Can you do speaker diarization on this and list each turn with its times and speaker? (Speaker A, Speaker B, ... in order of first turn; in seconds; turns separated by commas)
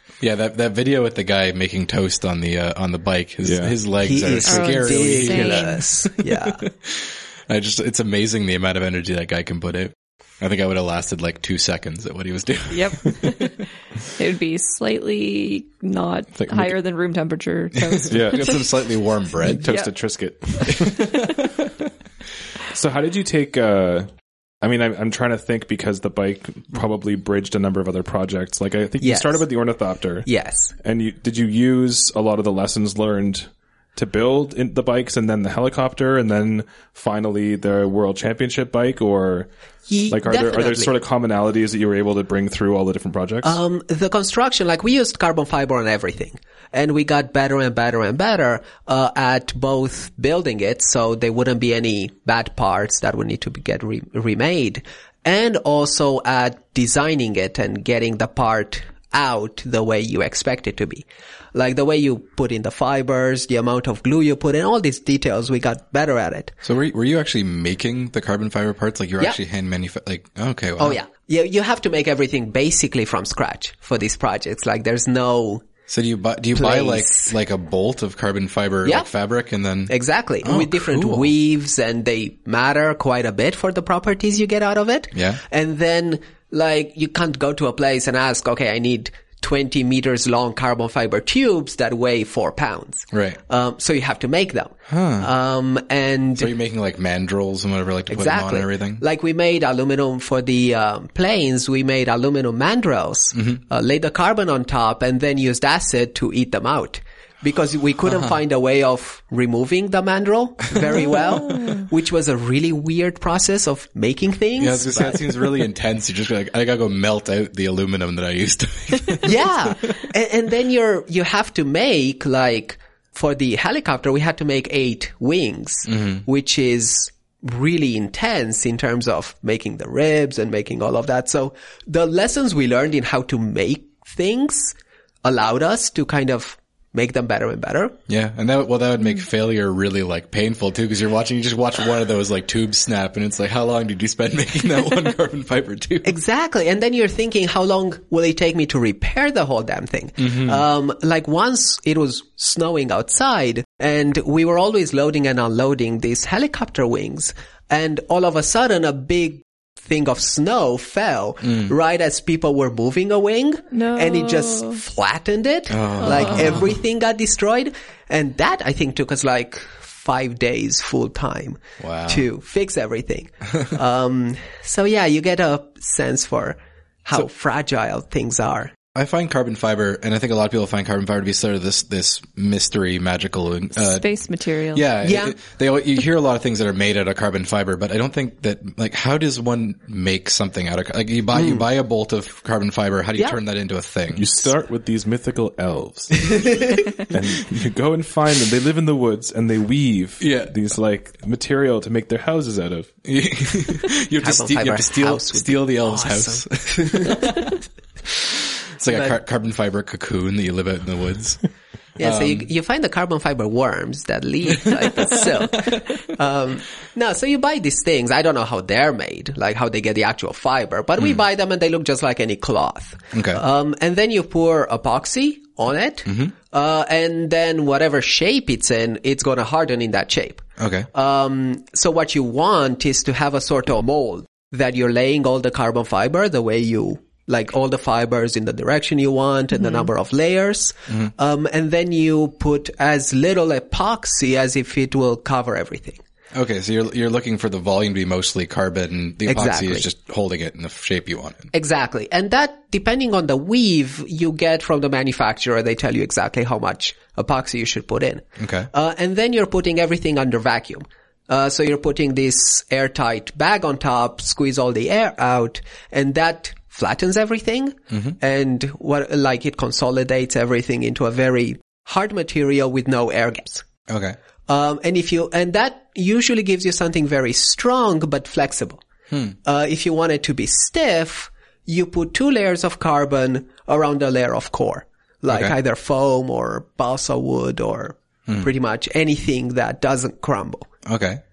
Speaker A: 0.2-13.3, Speaker B: 3.4-3.8, Speaker C: 4.0-6.6, Speaker D: 4.4-5.8, Speaker D: 12.7-18.7, Speaker B: 16.4-16.7, Speaker A: 17.8-19.7, Speaker B: 18.1-18.5, Speaker B: 19.4-21.1, Speaker D: 19.7-19.9, Speaker A: 20.7-21.5, Speaker B: 22.7-24.1, Speaker B: 24.6-30.3, Speaker C: 29.0-29.5, Speaker C: 30.2-30.7, Speaker B: 30.8-39.5, Speaker C: 39.9-40.9, Speaker B: 40.1-43.6, Speaker C: 43.4-66.5, Speaker A: 66.6-71.0, Speaker C: 70.8-75.7, Speaker A: 75.9-81.3, Speaker C: 76.6-77.3, Speaker C: 79.9-96.5, Speaker A: 85.1-85.4, Speaker A: 93.1-93.4, Speaker A: 94.9-95.3, Speaker A: 96.4-99.0, Speaker C: 98.1-115.3, Speaker A: 114.6-119.7, Speaker C: 119.2-138.0, Speaker A: 125.9-126.2, Speaker A: 138.1-146.2, Speaker C: 146.0-178.7, Speaker A: 150.2-150.6, Speaker A: 161.5-161.7, Speaker D: 163.7-164.8, Speaker A: 165.7-166.8, Speaker A: 171.8-172.2, Speaker A: 178.9-184.1, Speaker D: 183.8-184.9, Speaker A: 184.7-194.4, Speaker C: 185.0-185.4, Speaker C: 191.3-191.7, Speaker B: 194.2-202.9, Speaker A: 200.2-200.5, Speaker A: 203.1-207.6, Speaker C: 204.2-207.5, Speaker A: 208.8-211.4, Speaker C: 208.9-209.2, Speaker A: 212.0-212.5, Speaker C: 212.0-246.0, Speaker A: 223.1-223.4, Speaker A: 226.1-226.3, Speaker A: 230.6-230.9, Speaker D: 239.6-239.9, Speaker A: 246.3-251.5, Speaker C: 249.3-249.9, Speaker C: 251.5-273.7, Speaker A: 258.4-258.7, Speaker A: 267.9-268.2, Speaker A: 273.9-274.2, Speaker C: 274.5-278.8, Speaker A: 279.1-279.4, Speaker C: 279.4-290.7, Speaker A: 285.3-285.5, Speaker A: 290.9-291.2